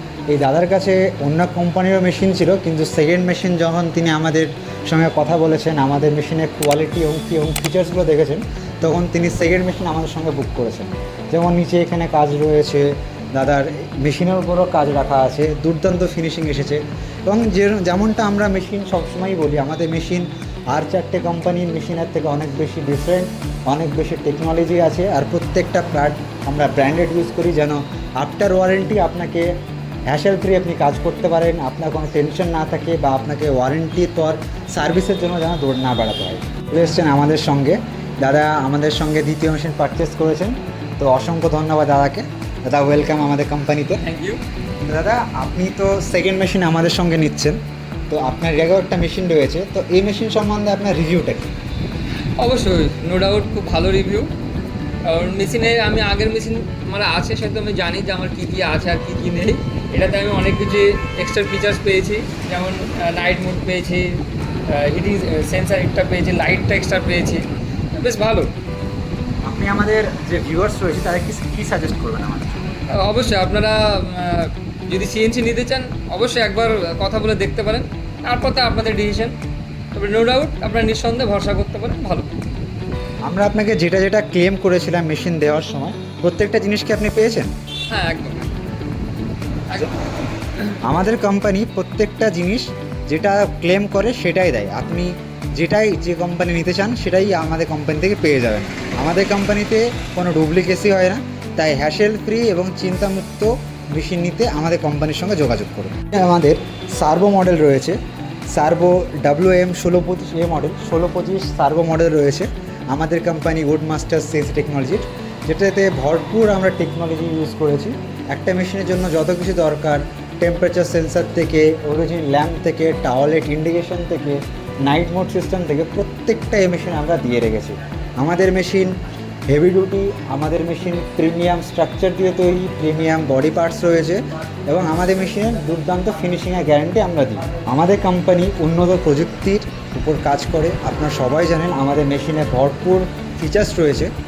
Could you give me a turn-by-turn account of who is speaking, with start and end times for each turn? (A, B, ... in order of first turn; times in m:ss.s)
0:00.3-0:29.5 A
0:30.1-0:44.0 A
0:44.0-0:44.4 B
0:44.9-0:47.6 A
0:48.1-0:51.5 A
0:52.4-0:54.3 B
0:55.0-1:08.5 B
1:09.4-1:12.7 A
1:12.9-1:19.3 B
1:19.9-1:22.3 B
1:23.2-1:27.5 A
1:27.9-1:28.5 B
1:30.8-1:48.0 A
1:48.5-2:08.9 A
2:09.5-2:24.1 A